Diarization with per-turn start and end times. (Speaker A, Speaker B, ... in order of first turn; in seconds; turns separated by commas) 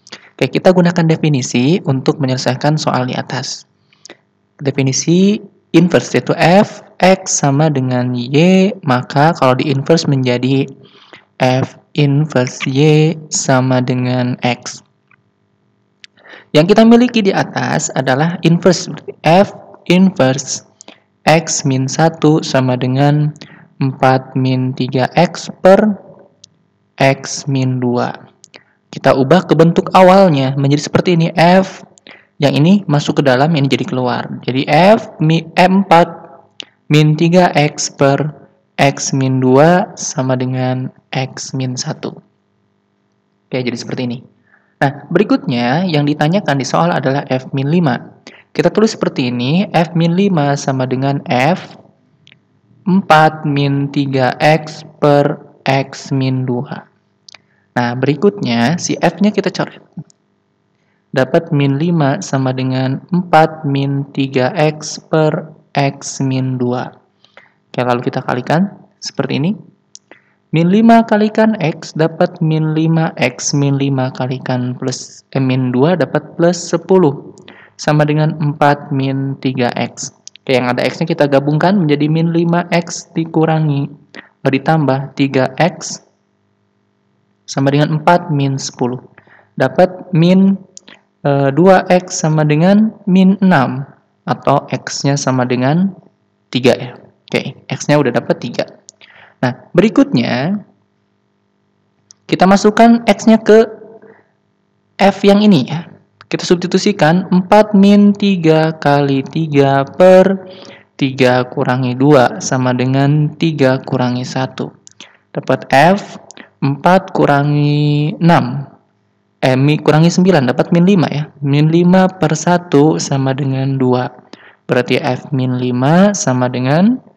Speaker A: 0.4-3.6, Speaker A: 4.6-10.7, Speaker A: 11.4-14.8, Speaker A: 16.5-20.7, Speaker A: 21.3-23.3, Speaker A: 23.8-25.9, Speaker A: 27.0-28.1, Speaker A: 28.9-31.8, Speaker A: 32.4-36.2, Speaker A: 36.9-38.3, Speaker A: 38.8-42.2, Speaker A: 43.5-44.2, Speaker A: 44.8-48.0, Speaker A: 48.5-51.8, Speaker A: 52.9-56.9, Speaker A: 57.8-59.9, Speaker A: 61.2-66.9, Speaker A: 67.7-69.5, Speaker A: 70.5-77.3, Speaker A: 77.8-83.9, Speaker A: 84.4-86.0, Speaker A: 87.5-89.0, Speaker A: 89.6-90.6, Speaker A: 91.2-95.9, Speaker A: 96.5-98.7, Speaker A: 99.4-100.6, Speaker A: 102.3-103.7, Speaker A: 105.0-110.3, Speaker A: 111.0-114.7, Speaker A: 115.3-118.7, Speaker A: 119.5-124.1, Speaker A: 124.7-127.0